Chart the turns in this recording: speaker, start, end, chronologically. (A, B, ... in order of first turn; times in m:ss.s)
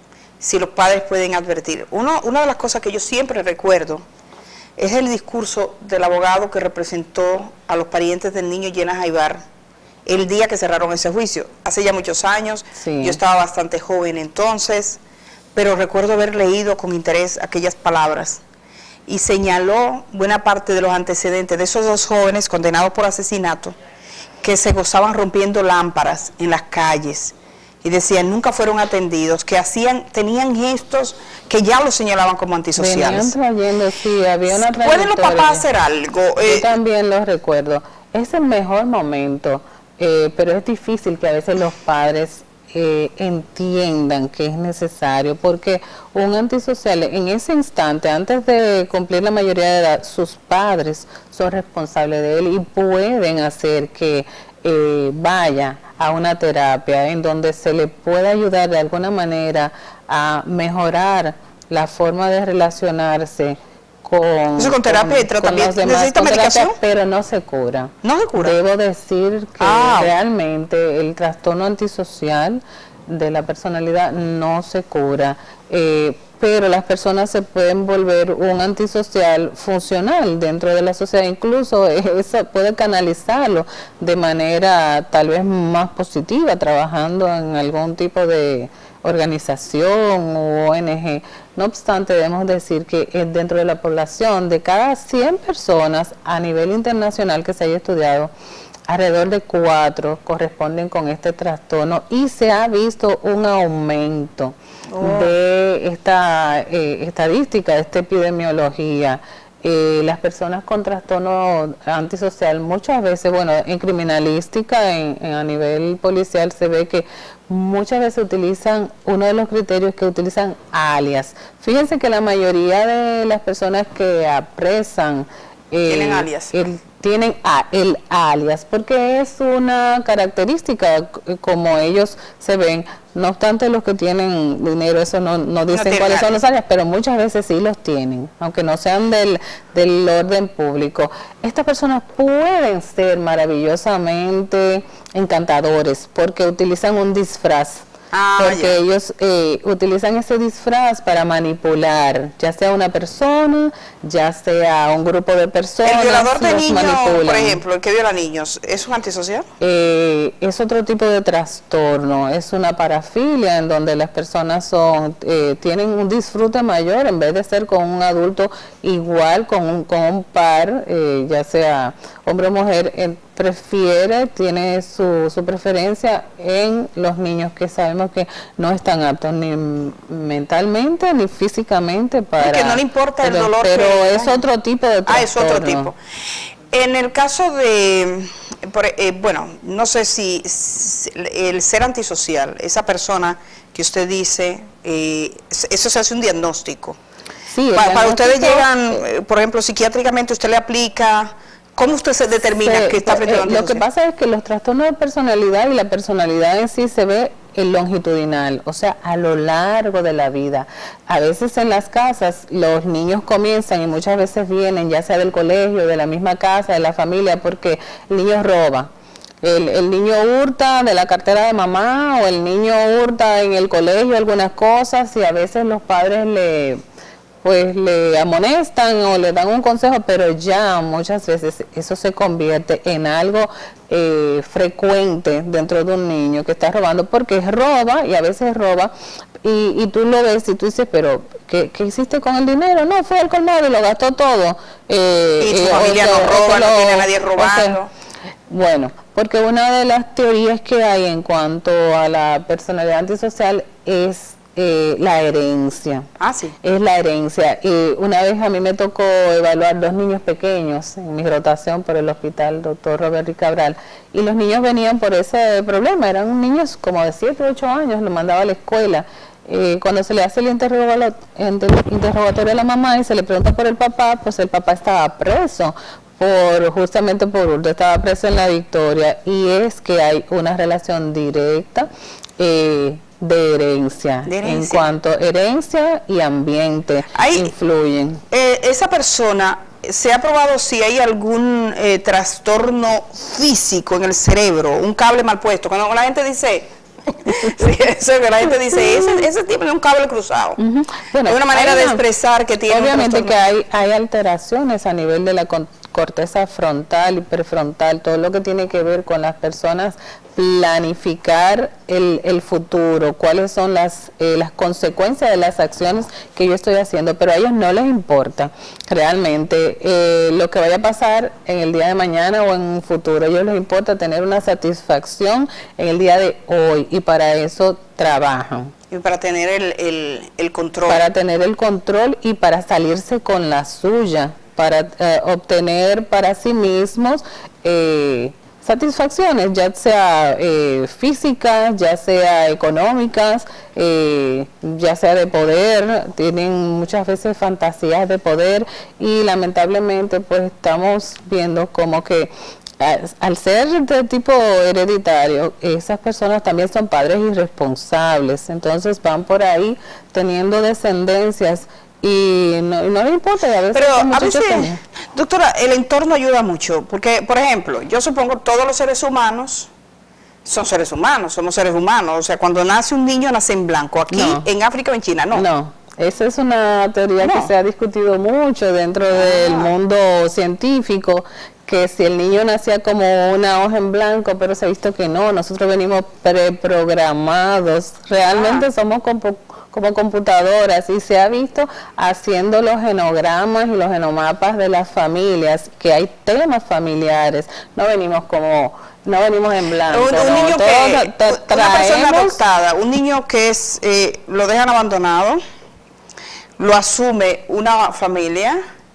0:00.4-0:04.1 A
0:04.8-0:09.4 A
0:10.1-0:15.0 A
0:12.8-0:13.2 B
0:15.5-0:18.4 A
0:19.1-0:23.8 A
0:24.4-0:33.3 A
0:32.8-0:35.7 B
0:34.5-0:36.7 A
0:36.4-1:38.3 B
1:04.6-1:06.8 A
1:08.0-1:08.6 A
1:09.6-1:10.1 A
1:38.9-2:27.9 B
1:44.9-1:45.3 A
2:05.9-2:06.5 A
2:15.7-2:16.4 A
2:28.1-2:28.8 A
2:28.4-2:37.6 B
2:35.8-2:39.5 A
2:39.6-3:05.9 B
3:02.4-3:04.4 A
3:05.1-3:06.0 A
3:06.7-3:17.0 A
3:17.5-3:19.0 B
3:17.7-3:23.8 A
3:22.5-3:38.9 B
3:39.4-3:46.8 B
3:47.4-3:58.9 B
3:59.4-4:07.8 B
4:05.4-4:07.9 A
4:08.5-4:16.1 B
4:16.2-4:16.5 A
4:16.6-4:41.9 B
4:42.4-4:48.2 B
4:44.3-4:44.9 A
4:47.2-4:47.5 A
4:48.3-5:00.6 A
5:00.6-5:02.0 B
5:01.2-5:03.4 A
5:02.7-5:28.7 B
5:28.9-5:31.0 A
5:30.9-6:04.8 B
6:03.7-6:09.7 A
6:10.4-6:15.5 A
6:14.1-6:14.5 B
6:15.3-6:42.4 B
6:17.2-6:17.5 A
6:19.1-6:19.7 A
6:28.3-6:28.7 A
6:39.9-6:45.4 A
6:46.6-6:48.6 A